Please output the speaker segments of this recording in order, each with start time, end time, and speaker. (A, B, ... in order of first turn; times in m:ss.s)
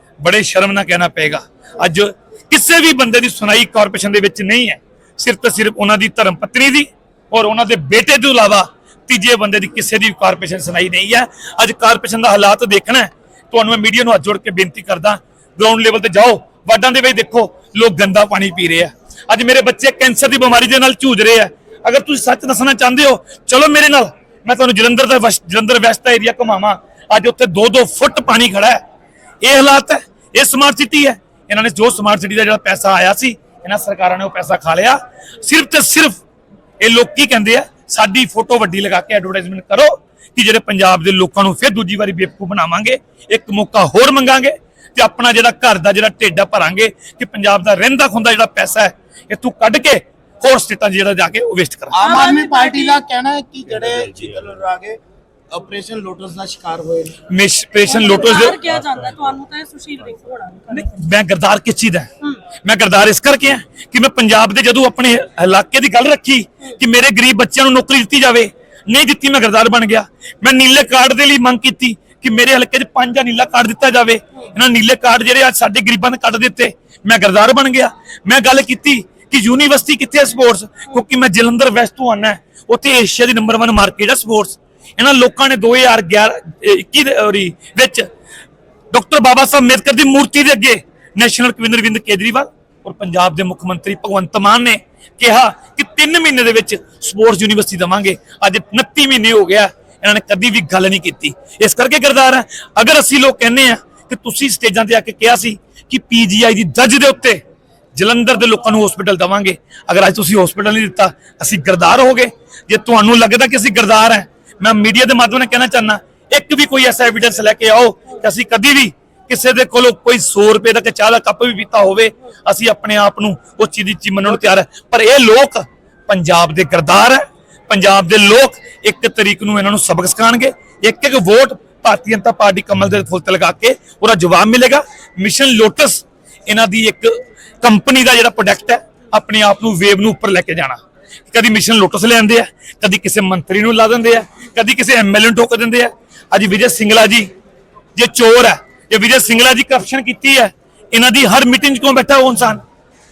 0:00.2-0:28.8 A
0:29.4-0:36.2 A
0:36.8-0:52.0 A
0:51.9-0:55.0 B
0:52.0-0:53.0 C
0:55.5-0:57.2 B
0:57.3-0:58.6 A
0:57.9-1:00.9 C
1:00.7-1:28.1 A
1:28.9-1:47.4 A
1:48.0-2:20.8 A
2:21.3-2:27.3 A
2:28.0-2:32.6 A